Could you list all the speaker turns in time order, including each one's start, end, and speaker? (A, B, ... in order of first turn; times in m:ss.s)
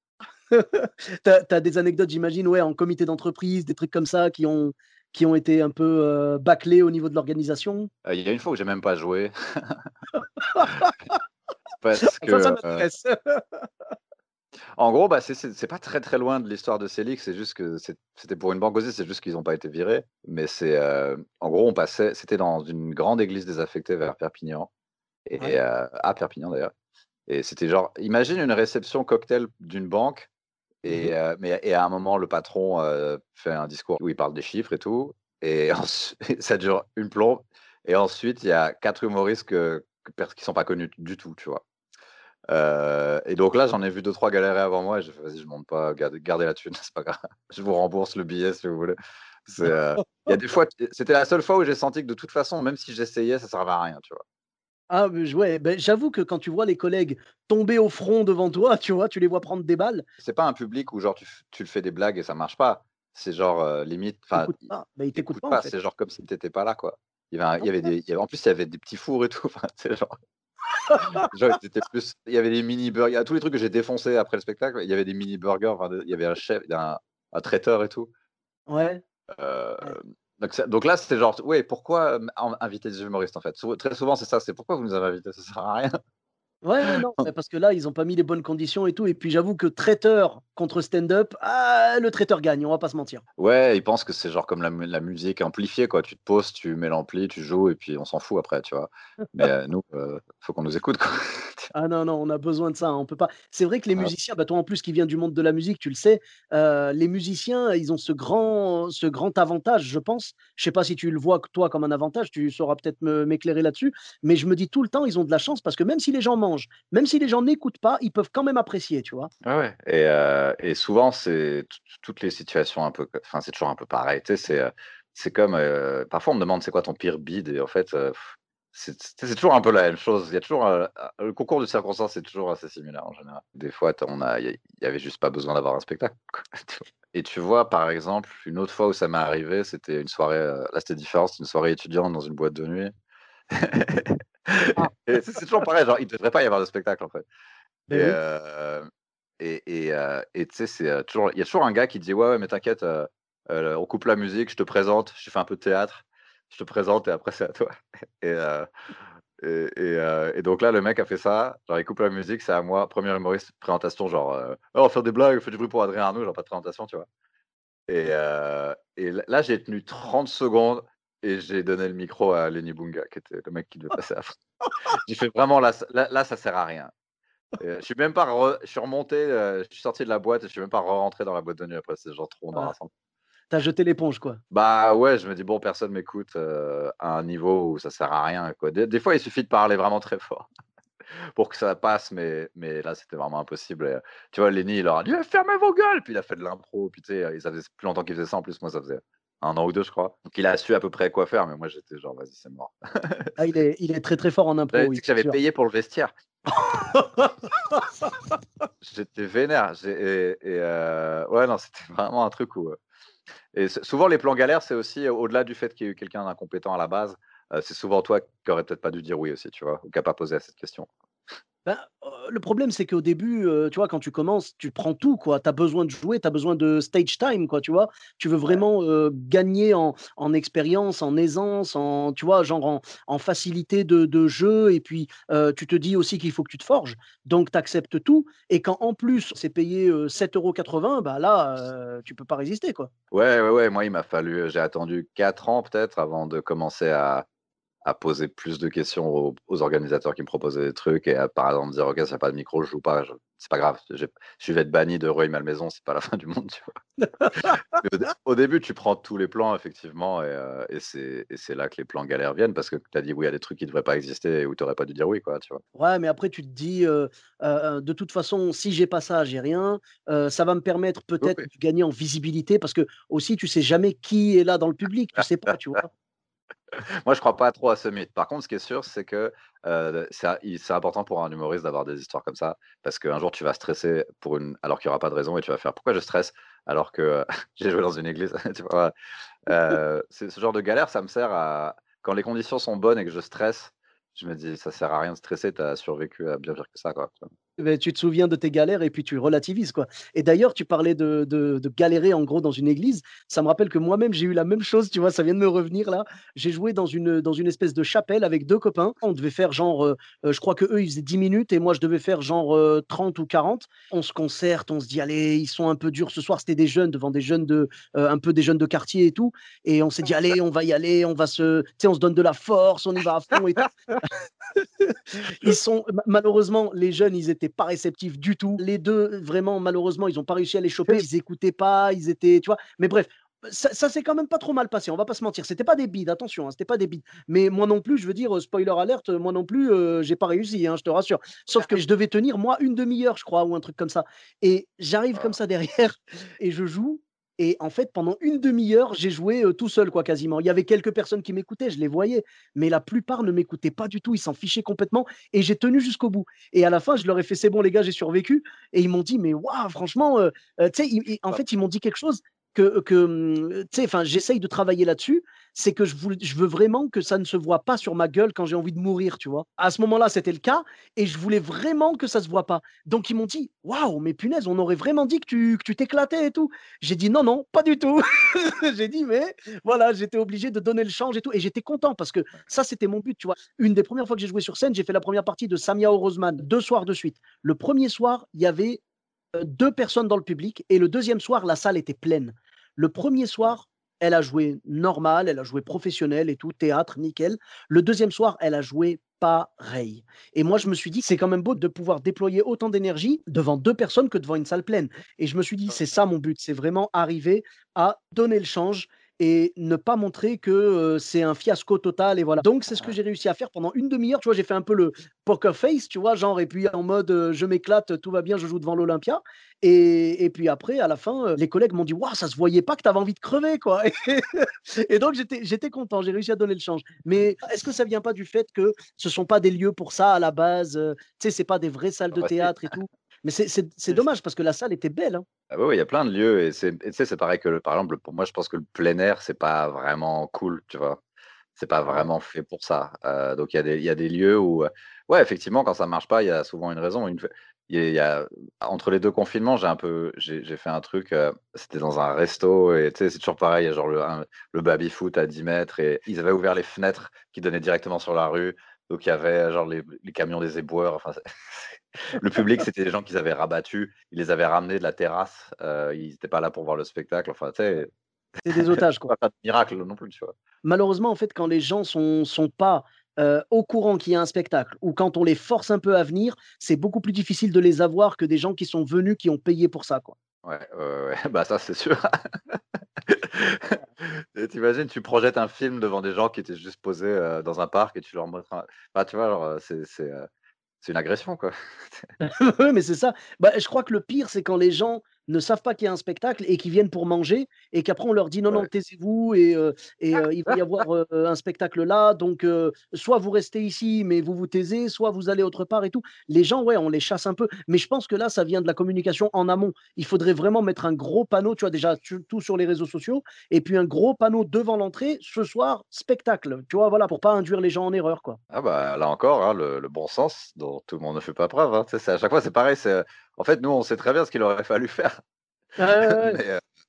0:00.5-0:07.9 A
0:08.0-0:09.8 B
0:10.4-0:11.1 A
0:11.8-0:12.9 B
0:12.0-0:13.7 A
0:14.8-0:24.7 B
0:25.3-0:26.7 B
0:27.3-0:30.3 B
0:30.8-0:41.6 B
0:42.5-0:54.2 B
0:54.9-1:00.0 A
1:00.2-1:04.6 B
1:04.4-1:05.7 A
1:05.2-1:10.2 B
1:10.9-1:11.3 A
1:11.2-1:18.1 B
1:18.7-1:19.0 A
1:19.4-1:26.0 B
1:26.6-1:33.2 A
1:33.4-1:41.7 B
1:41.7-1:59.3 A
1:59.4-2:22.9 B
2:23.5-2:27.2 B
2:27.9-2:28.2 A
2:27.9-2:28.9 B
2:29.4-2:38.7 B
2:39.4-2:47.1 B
2:47.9-2:54.3 B
2:54.9-2:56.9 B
2:57.6-3:02.9 B
3:03.5-3:04.4 A
3:04.5-3:10.5 B
3:11.4-3:23.3 B
3:23.4-3:25.4 A
3:24.7-3:26.1 B
3:26.5-3:27.8 A
3:28.8-3:32.8 B
3:33.5-3:40.9 B
3:41.7-4:02.9 A
4:03.1-4:07.2 B
4:07.8-4:16.8 B
4:17.0-4:17.8 A
4:17.4-4:25.6 B
4:25.8-4:35.9 A
4:36.8-4:48.9 B
4:49.5-4:57.3 B
4:57.6-5:24.0 A
5:24.6-6:28.8 A
6:29.4-7:15.2 A
7:12.2-7:12.5 B
7:15.5-7:21.0 B
7:21.6-7:47.9 B
7:48.5-7:49.1 A
7:48.5-7:50.3 B
7:50.6-8:00.2 A
8:00.4-8:10.3 B
8:10.8-8:12.1 B
8:12.2-8:38.4 A
8:38.5-8:45.2 B
8:45.8-8:46.4 A
8:46.0-8:46.6 B